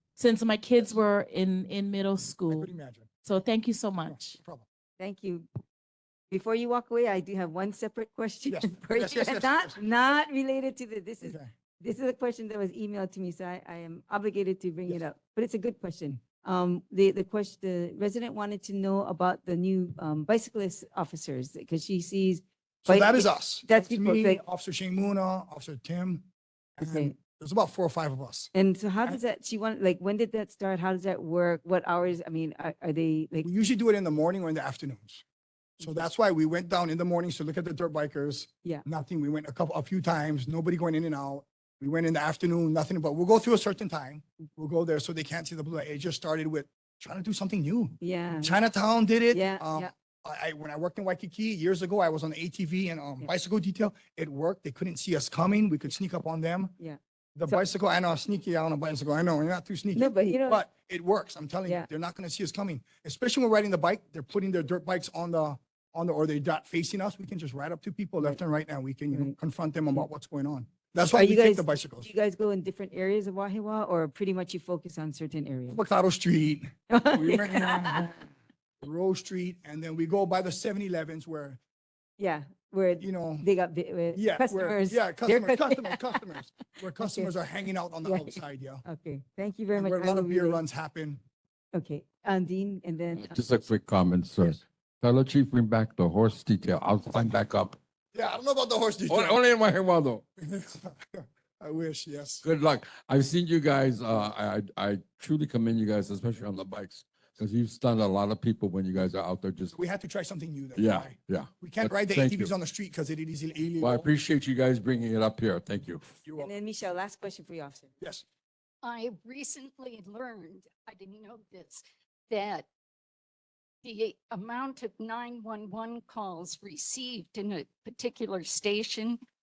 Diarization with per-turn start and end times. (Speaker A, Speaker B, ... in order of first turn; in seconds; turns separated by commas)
Speaker A: 0.2-2.7, Speaker B: 2.5-3.1, Speaker A: 3.2-4.4, Speaker B: 4.0-4.7, Speaker C: 5.0-5.5, Speaker C: 6.3-24.4, Speaker B: 8.5-9.8, Speaker B: 11.2-11.5, Speaker B: 22.8-26.3, Speaker B: 26.8-28.5, Speaker C: 26.8-27.1, Speaker C: 28.6-33.5, Speaker B: 33.4-35.2, Speaker B: 35.8-56.8, Speaker C: 48.0-48.6, Speaker C: 49.3-49.9, Speaker C: 56.8-57.6, Speaker B: 57.4-72.1, Speaker C: 60.0-60.6, Speaker C: 71.1-75.8, Speaker B: 75.7-78.2, Speaker C: 76.9-78.1, Speaker B: 78.8-81.6, Speaker C: 82.2-86.3, Speaker B: 83.0-83.5, Speaker B: 84.2-88.8, Speaker C: 87.0-87.3, Speaker C: 88.0-88.3, Speaker C: 88.8-90.6, Speaker B: 89.8-91.2, Speaker C: 91.7-93.3, Speaker D: 93.2-97.8, Speaker B: 98.1-99.4, Speaker D: 99.1-100.2, Speaker B: 100.4-102.4, Speaker D: 102.4-109.8, Speaker B: 109.7-114.1, Speaker D: 110.8-112.5, Speaker D: 113.8-116.1, Speaker B: 116.2-116.5, Speaker C: 116.4-117.9, Speaker B: 118.0-118.2, Speaker E: 118.8-122.7, Speaker E: 123.8-129.2